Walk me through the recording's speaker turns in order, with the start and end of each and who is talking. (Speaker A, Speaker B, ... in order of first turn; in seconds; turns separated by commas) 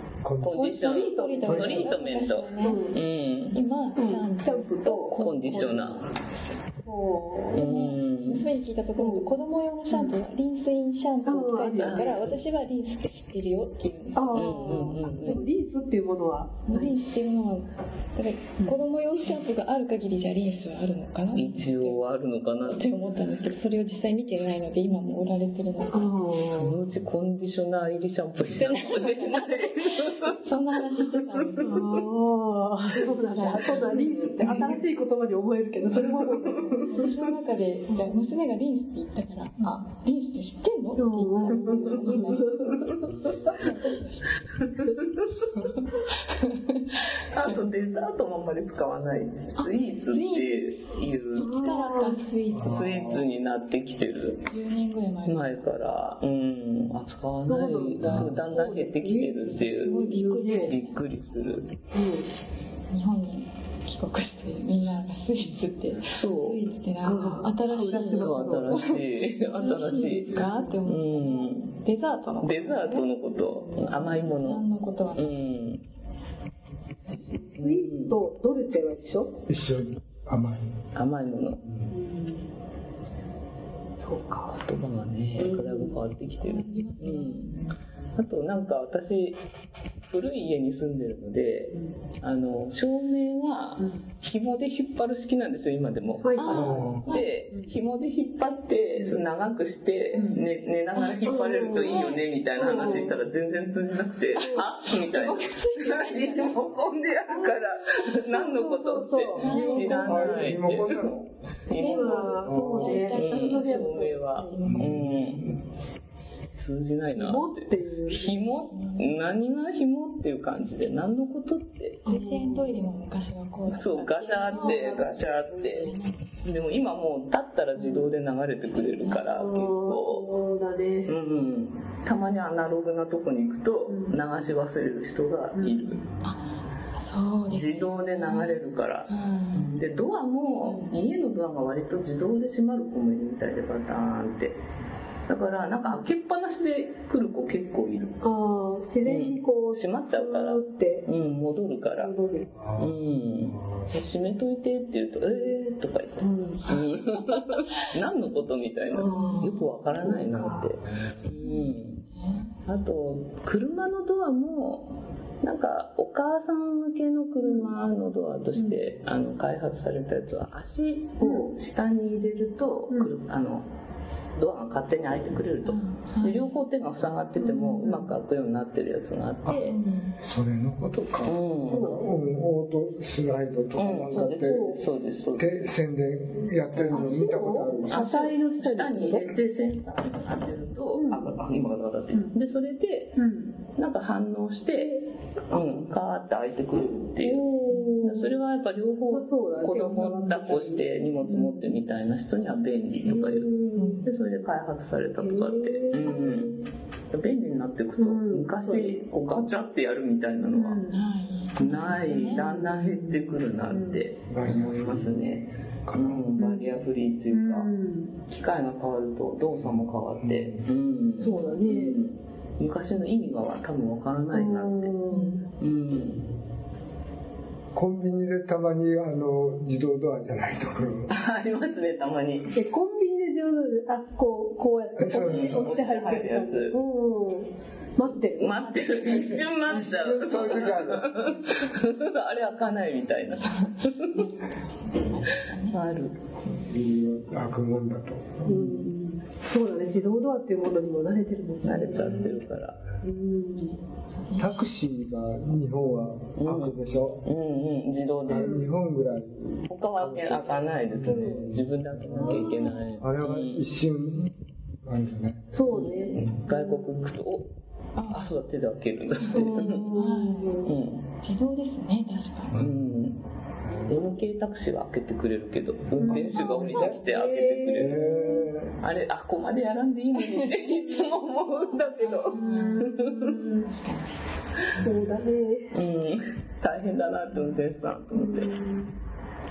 Speaker A: 0.2-0.8, Speaker B: 0.4-3.6, Speaker C: 0.5-1.9, Speaker D: 0.9-2.9, Speaker A: 1.5-1.9, Speaker C: 2.6-3.0, Speaker D: 3.5-6.6, Speaker C: 4.0-5.9, Speaker B: 5.2-6.1, Speaker C: 6.9-7.7, Speaker B: 7.5-8.5, Speaker D: 7.5-15.3, Speaker C: 9.0-9.4, Speaker C: 9.9-10.2, Speaker C: 11.2-12.3, Speaker B: 11.8-12.4, Speaker C: 14.2-17.0, Speaker B: 14.3-15.5, Speaker D: 16.7-22.0, Speaker B: 21.3-22.8, Speaker D: 22.6-26.1, Speaker C: 25.9-26.8, Speaker B: 26.4-30.3, Speaker D: 28.5-32.0, Speaker B: 31.0-31.7, Speaker C: 31.6-37.1, Speaker D: 32.9-34.7, Speaker B: 35.9-37.1, Speaker D: 36.6-44.7, Speaker C: 37.9-38.2, Speaker C: 41.0-43.6, Speaker B: 41.5-42.1, Speaker A: 43.0-43.8, Speaker B: 44.8-45.2, Speaker D: 45.5-46.9, Speaker B: 47.3-51.6, Speaker D: 49.6-50.8, Speaker D: 51.4-53.2, Speaker C: 51.4-52.2, Speaker A: 52.5-53.2, Speaker B: 52.6-54.5, Speaker D: 54.5-55.7, Speaker B: 55.2-60.0, Speaker C: 57.5-60.8, Speaker A: 58.0-58.4, Speaker D: 59.5-61.0, Speaker B: 60.5-61.7, Speaker C: 61.9-62.3, Speaker D: 62.9-75.4, Speaker B: 64.7-65.0, Speaker B: 66.1-66.7, Speaker C: 67.0-69.0, Speaker B: 68.0-71.8, Speaker C: 70.3-70.8, Speaker B: 72.4-75.8, Speaker C: 77.0-79.4, Speaker B: 77.6-78.2, Speaker A: 79.5-80.8, Speaker B: 80.9-81.6, Speaker C: 81.9-82.5, Speaker C: 84.0-84.5, Speaker B: 84.5-87.6, Speaker C: 85.4-86.0, Speaker D: 86.4-87.7, Speaker B: 88.2-89.4, Speaker B: 90.1-112.3, Speaker C: 93.8-94.0, Speaker C: 96.2-97.7, Speaker D: 96.4-97.3, Speaker A: 96.5-97.1, Speaker C: 99.0-99.2, Speaker C: 100.1-100.4, Speaker C: 101.2-103.2, Speaker D: 101.7-103.1, Speaker D: 104.3-106.6, Speaker C: 107.3-110.6, Speaker D: 109.4-110.5, Speaker A: 109.8-111.3, Speaker D: 111.7-115.1, Speaker C: 111.8-114.7, Speaker A: 112.4-113.1, Speaker B: 113.1-115.6, Speaker A: 114.7-115.6, Speaker B: 116.5-122.1, Speaker C: 117.0-118.4, Speaker D: 118.7-119.1, Speaker D: 122.0-126.3, Speaker C: 122.1-122.9, Speaker B: 123.7-130.3, Speaker C: 124.5-125.0, Speaker C: 127.8-128.1, Speaker D: 128.6-129.3, Speaker C: 129.3-131.2, Speaker B: 131.1-136.1, Speaker C: 133.9-134.2, Speaker C: 135.6-136.1, Speaker D: 136.2-139.7, Speaker B: 137.5-144.6, Speaker B: 145.3-148.2, Speaker C: 148.2-152.5, Speaker B: 149.0-152.1, Speaker A: 152.6-153.9, Speaker B: 152.8-162.0, Speaker C: 155.2-156.8, Speaker C: 158.9-160.8, Speaker D: 159.1-159.7, Speaker D: 161.3-162.6, Speaker B: 162.7-173.7, Speaker C: 167.4-167.8, Speaker C: 171.2-171.5, Speaker B: 174.3-179.8, Speaker D: 175.7-176.6, Speaker C: 177.4-178.2, Speaker D: 179.6-180.2, Speaker A: 180.2-188.0, Speaker B: 181.2-181.9, Speaker C: 181.7-182.0, Speaker B: 183.8-185.7, Speaker C: 184.1-184.8, Speaker B: 186.8-187.1, Speaker C: 186.9-189.3, Speaker B: 187.9-193.2, Speaker C: 190.9-191.4, Speaker C: 193.2-193.6, Speaker B: 193.8-195.0, Speaker C: 194.7-195.7, Speaker B: 195.5-197.5, Speaker C: 197.2-198.4, Speaker B: 198.0-203.5, Speaker C: 199.1-201.8, Speaker C: 203.1-204.0, Speaker D: 203.8-204.1, Speaker B: 204.0-206.6, Speaker C: 205.2-206.7, Speaker B: 207.1-210.8, Speaker C: 208.0-209.0, Speaker C: 210.4-211.1, Speaker D: 210.9-212.5, Speaker B: 211.6-217.7, Speaker C: 212.3-214.1, Speaker A: 214.3-216.3, Speaker C: 216.4-216.7, Speaker C: 217.3-218.2, Speaker B: 218.3-225.0, Speaker A: 220.2-220.7, Speaker C: 221.2-222.0, Speaker C: 224.3-225.5, Speaker D: 225.1-225.4, Speaker B: 225.6-226.3, Speaker A: 227.7-231.1, Speaker B: 231.1-232.6, Speaker C: 232.5-238.7, Speaker A: 235.0-235.8, Speaker B: 235.2-236.8, Speaker B: 238.3-244.3, Speaker D: 238.5-239.7, Speaker A: 239.6-241.1, Speaker D: 243.4-244.3, Speaker D: 244.9-245.9, Speaker B: 245.7-246.2, Speaker A: 246.4-248.8, Speaker C: 248.4-252.4, Speaker B: 248.5-248.8, Speaker B: 251.6-252.8, Speaker A: 251.9-252.3, Speaker C: 253.0-253.8, Speaker D: 254.1-254.7, Speaker A: 254.4-257.2, Speaker B: 256.4-258.6, Speaker A: 258.3-266.4, Speaker C: 258.3-258.7, Speaker B: 259.7-263.7, Speaker C: 261.1-261.4, Speaker C: 262.2-262.8, Speaker C: 265.5-267.0, Speaker B: 265.7-267.5, Speaker D: 268.0-268.4, Speaker B: 268.1-269.9, Speaker D: 269.2-270.7, Speaker C: 269.3-270.7, Speaker B: 270.6-271.1, Speaker D: 271.2-272.6, Speaker B: 272.5-273.2, Speaker A: 272.5-273.0, Speaker A: 273.7-273.9, Speaker B: 273.9-278.1, Speaker C: 276.0-278.5, Speaker A: 276.1-277.0, Speaker D: 276.2-276.9, Speaker A: 277.7-278.7, Speaker B: 278.8-283.4, Speaker D: 280.2-280.9, Speaker D: 282.0-284.1, Speaker C: 282.3-283.7, Speaker C: 284.8-285.7, Speaker B: 285.7-288.5, Speaker C: 288.1-288.9